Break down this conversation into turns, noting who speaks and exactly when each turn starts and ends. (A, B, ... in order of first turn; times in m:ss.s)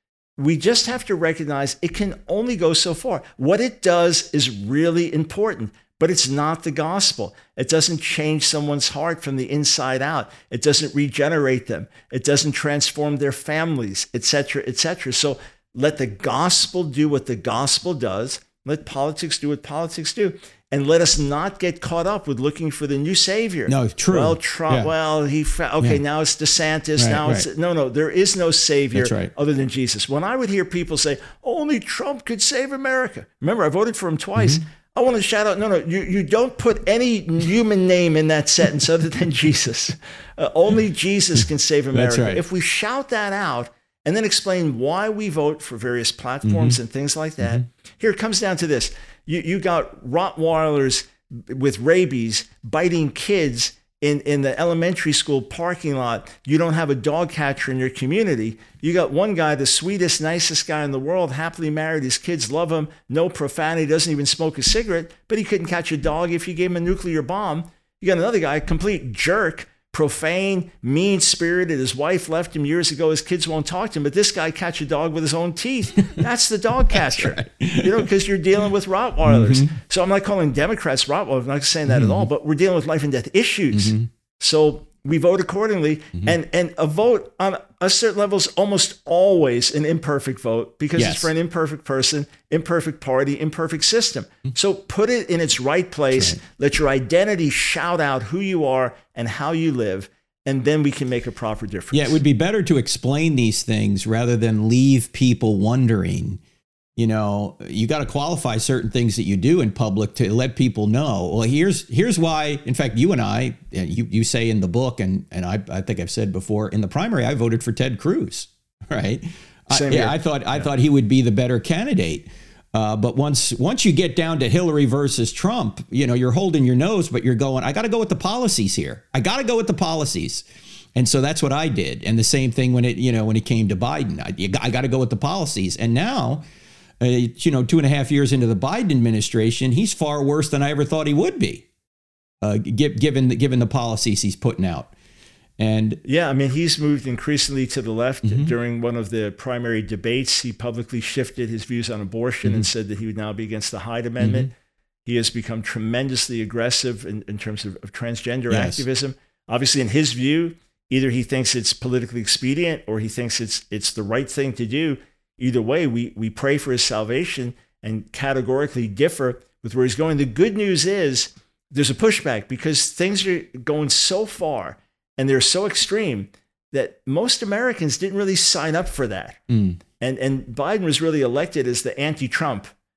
0:00.4-1:42.2 A
0:23.7-0:24.9 B
0:27.0-0:27.4 B
0:29.0-0:29.3 B
0:34.4-0:34.6 B
0:41.9-0:42.4 B
0:46.4-0:46.8 B
1:16.9-1:18.1 B
1:19.3-1:19.7 B
1:21.9-1:22.3 B
1:23.7-1:24.1 B
1:31.0-1:31.3 B
1:41.9-1:46.4 B
1:47.0-2:16.4 B
1:59.7-2:00.7 A
2:17.0-2:21.7 B
2:22.4-2:24.9 B
2:25.6-2:26.0 B
2:26.0-2:34.5 A
2:28.2-2:28.5 B
2:34.2-2:34.5 B
2:35.1-2:59.4 A
2:38.5-2:38.8 B
2:59.5-2:59.8 B
3:00.0-3:02.7 A